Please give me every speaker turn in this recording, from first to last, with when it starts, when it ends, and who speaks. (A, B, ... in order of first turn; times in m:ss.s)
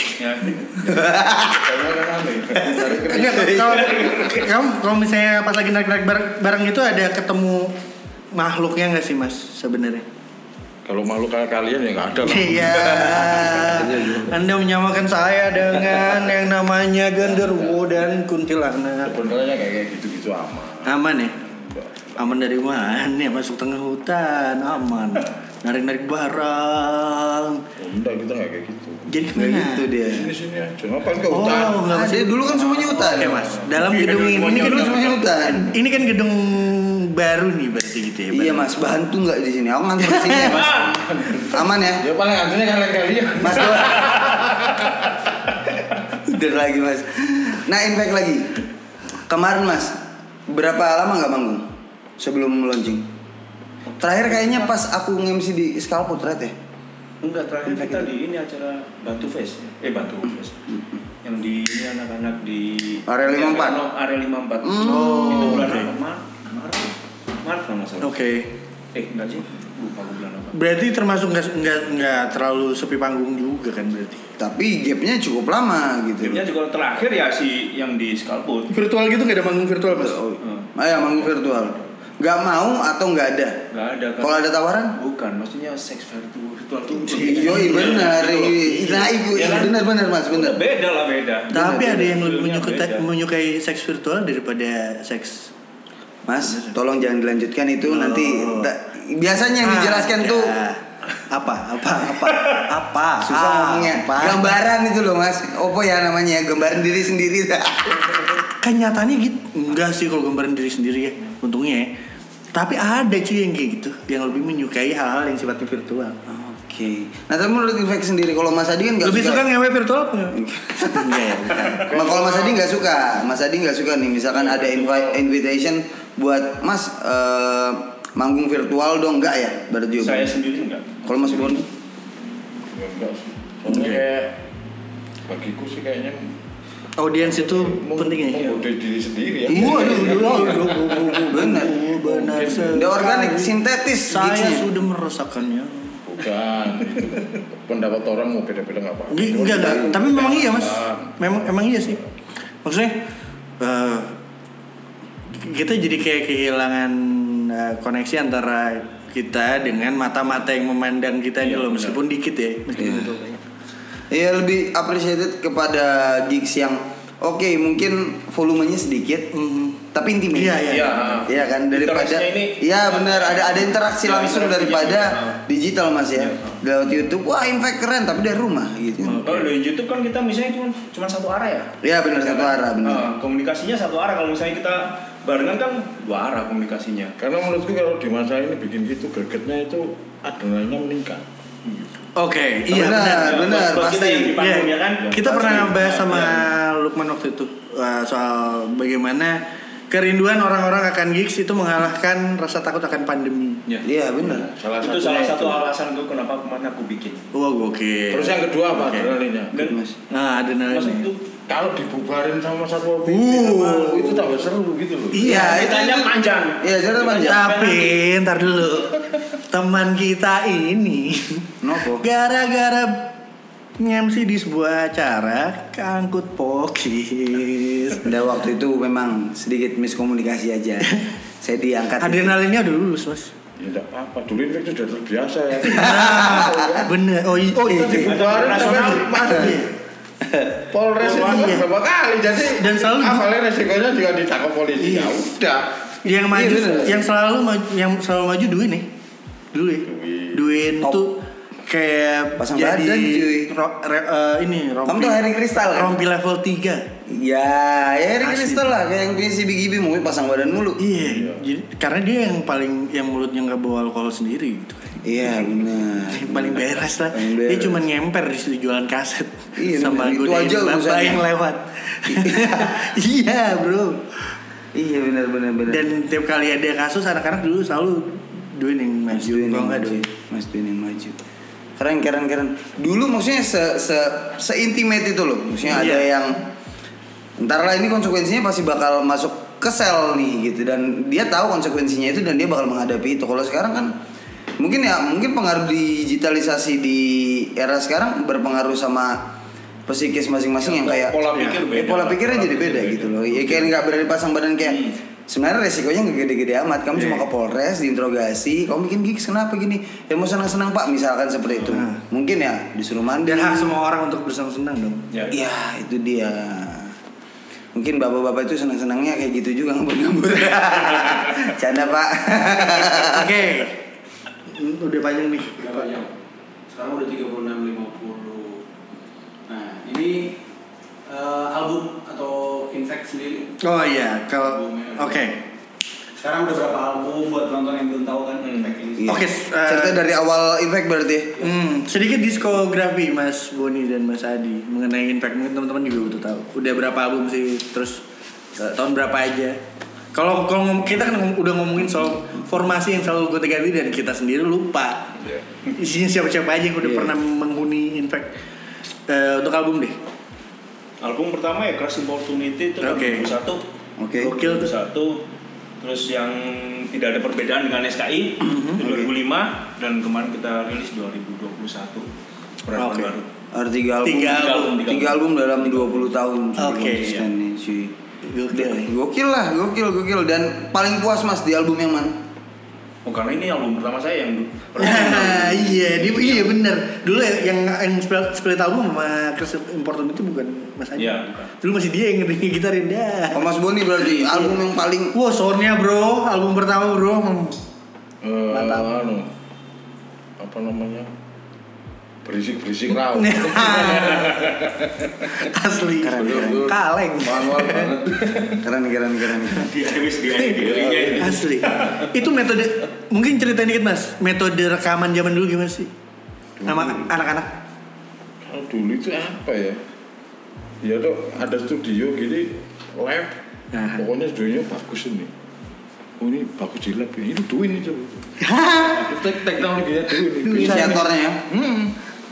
0:00.2-0:00.6 A
0:00.8-0:01.7 B
0:01.4-0:04.1 C
0:02.7-0:07.7 D
0:03.4-0:03.8 B
0:03.8-0:04.4 A
0:08.4-0:10.0 D
0:10.8-0:13.9 C
0:12.2-0:19.2 D
0:12.8-0:14.4 B
0:17.2-0:18.0 C
0:19.0-0:22.4 C
0:20.8-0:21.4 D
0:22.2-0:27.6 D
0:27.8-0:29.1 C
0:29.1-0:29.9 D
0:29.4-0:30.3 B
0:30.0-0:31.9 C
0:31.3-0:35.1 D
0:31.7-0:33.4 B
0:32.5-0:33.7 C
0:33.8-0:35.2 A
0:34.5-0:35.8 B
0:35.7-0:38.7 D
0:38.3-0:40.8 B
0:40.0-0:40.6 D
0:40.4-0:40.9 A
0:40.8-0:45.1 C
0:41.4-0:42.0 B
0:43.4-0:44.1 B
0:46.1-0:48.6 B
0:49.3-0:51.7 B
0:52.2-0:53.1 B
0:53.9-0:54.5 A
0:54.0-0:56.6 B
0:57.2-1:00.6 A
0:57.7-0:58.1 B
1:01.2-1:08.1 A
1:03.1-1:03.8 B
1:04.6-1:05.7 B
1:04.8-1:05.9 D
1:08.0-1:08.5 D
1:08.9-1:10.6 A
1:10.5-1:14.3 D
1:14.4-1:16.4 B
1:16.2-1:18.7 A
1:18.7-1:20.2 D
1:19.9-1:23.6 B
1:20.4-1:20.7 A
1:23.7-1:28.7 A
1:24.2-1:24.9 B
1:27.1-1:30.6 B
1:27.2-1:28.1 D
1:28.6-1:29.2 D
1:29.3-1:33.1 A
1:31.5-1:35.5 D
1:31.5-1:32.1 B
1:36.3-1:40.6 B
1:36.5-1:36.7 D
1:37.9-1:38.7 D
1:39.6-1:44.6 D
1:43.2-1:48.2 B
1:48.6-1:51.9 D
1:52.5-1:56.2 D
1:56.3-1:59.5 B
1:59.0-2:01.9 D
2:00.3-2:10.3 B
2:01.8-2:02.6 C
2:04.6-2:04.8 A
2:10.0-2:11.1 A
2:11.0-2:11.7 B
2:12.7-2:14.4 C
2:13.7-2:14.0 D
2:15.3-2:16.3 C
2:17.0-2:18.5 D
2:17.2-2:20.7 C
2:19.5-2:21.9 B
2:19.5-2:23.5 D
2:22.0-2:22.8 C
2:22.7-2:24.7 B
2:24.1-2:26.0 D
2:26.1-2:31.2 C
2:29.1-2:32.0 D
2:29.3-2:30.0 B
2:32.6-2:33.0 D
2:33.6-2:34.2 D
2:35.3-2:43.4 D
2:41.4-2:42.0 A
2:42.8-2:43.1 B
2:44.1-2:49.3 B
2:49.3-2:51.2 D
2:49.9-2:59.3 B
2:50.7-2:55.4 A
2:56.2-2:56.6 A
2:59.0-2:59.5 D
2:59.2-3:07.2 A
3:01.8-3:03.1 B
3:07.2-3:11.2 C
3:12.2-3:13.5 D
3:12.7-3:14.4 B
3:13.0-3:16.5 A
3:14.4-3:23.6 D
3:23.8-3:24.5 B
3:24.2-3:25.6 C
3:24.8-3:27.3 A
3:27.3-3:29.2 D
3:28.1-3:29.7 C
3:29.5-3:29.8 A
3:29.6-3:29.9 B
3:30.1-3:31.1 D
3:30.7-3:31.2 A
3:31.5-3:35.3 C
3:33.0-3:34.3 D
3:35.1-3:35.7 D
3:35.2-3:37.5 B
3:35.3-3:38.0 A
3:37.2-3:41.5 D
3:41.6-3:42.0 B
3:42.0-3:43.1 D
3:43.8-3:48.1 D
3:48.0-3:52.4 B
3:52.0-3:53.3 D
3:53.6-3:56.9 C
3:55.6-3:59.8 D
3:55.8-3:56.8 B
3:57.7-3:58.1 B
3:57.7-3:59.6 C
3:57.9-3:59.3 A
4:00.7-4:05.7 C
4:01.0-4:01.7 D
4:02.5-4:03.3 D
4:04.8-4:05.2 D
4:06.0-4:08.9 D
4:06.3-4:07.1 B
4:09.5-4:16.8 D
4:09.9-4:10.4 C
4:12.4-4:13.5 B
4:14.9-4:16.0 B
4:17.1-4:20.8 B
4:18.2-4:18.7 D
4:20.8-4:25.0 D
4:21.0-4:21.4 C
4:25.0-4:27.9 B
4:26.1-4:34.0 D
4:29.6-4:31.2 B
4:32.1-4:32.8 B
4:34.7-4:35.8 B
4:35.7-4:40.0 D
4:39.1-4:41.2 B
4:41.8-4:46.4 B
4:45.7-4:46.1 D
4:47.4-4:53.9 B
4:54.6-4:59.2 B
4:59.9-5:13.8 B
5:00.6-5:03.8 A
5:01.3-5:01.6 D
5:04.7-5:05.0 A
5:11.7-5:12.0 D
5:13.2-5:15.1 D
5:15.3-5:17.0 B
5:17.7-5:23.5 B
5:22.8-5:23.8 D
5:24.5-5:25.9 D
5:25.6-5:26.1 E
5:26.7-5:28.6 E
5:29.5-5:30.4 E
5:31.1-5:33.6 E
5:33.6-5:35.4 D
5:34.6-5:35.2 E
5:36.2-5:39.1 E
5:38.4-5:38.8 A
5:39.0-5:41.4 B
5:39.1-5:40.0 D
5:41.4-5:48.0 D
5:48.6-5:49.6 D
5:50.1-5:55.2 D
5:55.8-5:58.3 D
5:56.8-5:57.2 B
5:59.1-6:00.0 D
6:01.0-6:03.6 A
6:02.8-6:03.3 D
6:04.0-6:04.4 B
6:04.2-6:04.7 D
6:04.3-6:05.2 A
6:05.8-6:12.1 A
6:08.4-6:08.8 D
6:08.8-6:09.1 B
6:12.7-6:13.3 A
6:12.8-6:13.1 D
6:13.5-6:17.9 B
6:14.0-6:14.8 D
6:14.2-6:16.0 A
6:16.6-6:17.2 D
6:18.2-6:18.9 D
6:18.5-6:22.2 B
6:23.0-6:26.5 A
6:24.8-6:34.6 D
6:31.0-6:31.5 A
6:33.3-6:35.2 B
6:35.1-6:37.6 D
6:38.2-6:39.3 C
6:38.5-6:38.9 D
6:40.4-6:41.1 C
6:42.2-6:45.5 C
6:42.9-6:44.6 D
6:45.3-6:47.9 D
6:46.0-6:46.7 B
6:46.1-6:48.6 C
6:48.6-6:49.7 B
6:49.6-6:52.1 A
6:50.5-6:51.4 C
6:51.2-6:55.9 D
6:56.6-6:57.1 C
6:56.6-6:57.5 D
6:58.4-6:59.8 C
7:00.8-7:03.4 C
7:03.7-7:04.0 D
7:04.0-7:05.3 C
7:06.2-7:08.3 C
7:08.4-7:09.1 D
7:08.8-7:11.9 C
7:10.4-7:11.1 D
7:10.5-7:11.4 B